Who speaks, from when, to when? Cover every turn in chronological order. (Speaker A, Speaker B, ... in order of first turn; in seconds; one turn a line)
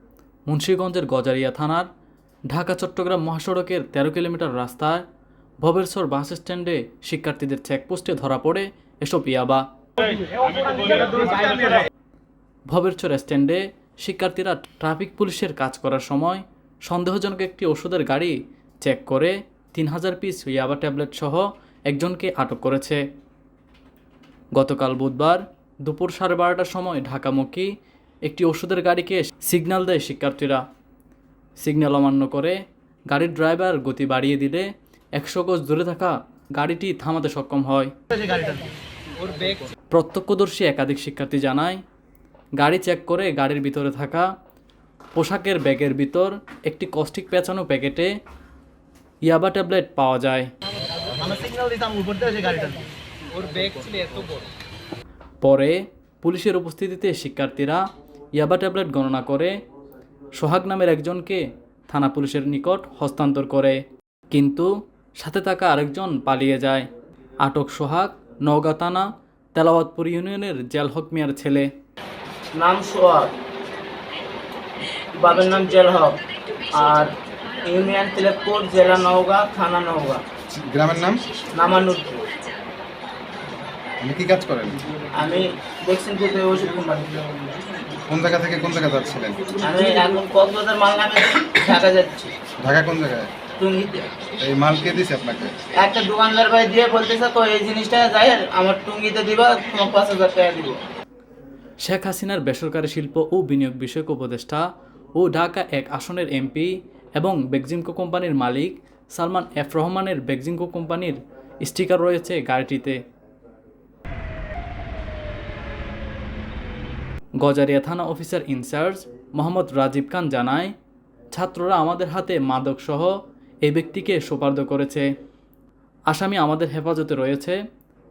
Speaker A: 0.5-1.9
Speaker A: 2.5-5.0
Speaker A: 5.6-9.6
Speaker B: 10.5-11.9
Speaker A: 12.7-23.0
Speaker A: 24.5-27.7
Speaker A: 28.2-30.6
Speaker A: 31.6-37.9
Speaker B: 38.2-39.7
Speaker A: 39.9-41.8
Speaker A: 42.6-44.3
Speaker A: 45.1-48.1
Speaker A: 49.2-50.5
Speaker B: 51.2-54.5
Speaker A: 55.4-57.8
Speaker A: 58.3-59.5
Speaker A: 60.3-66.9
Speaker A: 67.4-71.7
Speaker C: 72.5-73.3
Speaker C: 75.1-76.2
Speaker C: 76.7-80.2
Speaker D: 80.6-81.2
Speaker C: 81.5-82.3
Speaker D: 84.0-84.8
Speaker C: 85.1-87.4
Speaker D: 88.0-89.5
Speaker C: 89.6-92.3
Speaker D: 92.6-93.3
Speaker C: 93.6-94.1
Speaker D: 94.4-95.6
Speaker C: 95.7-100.8
Speaker A: 101.8-113.0
Speaker A: 117.4-120.7
Speaker A: 121.3-125.1
Speaker A: 126.1-127.6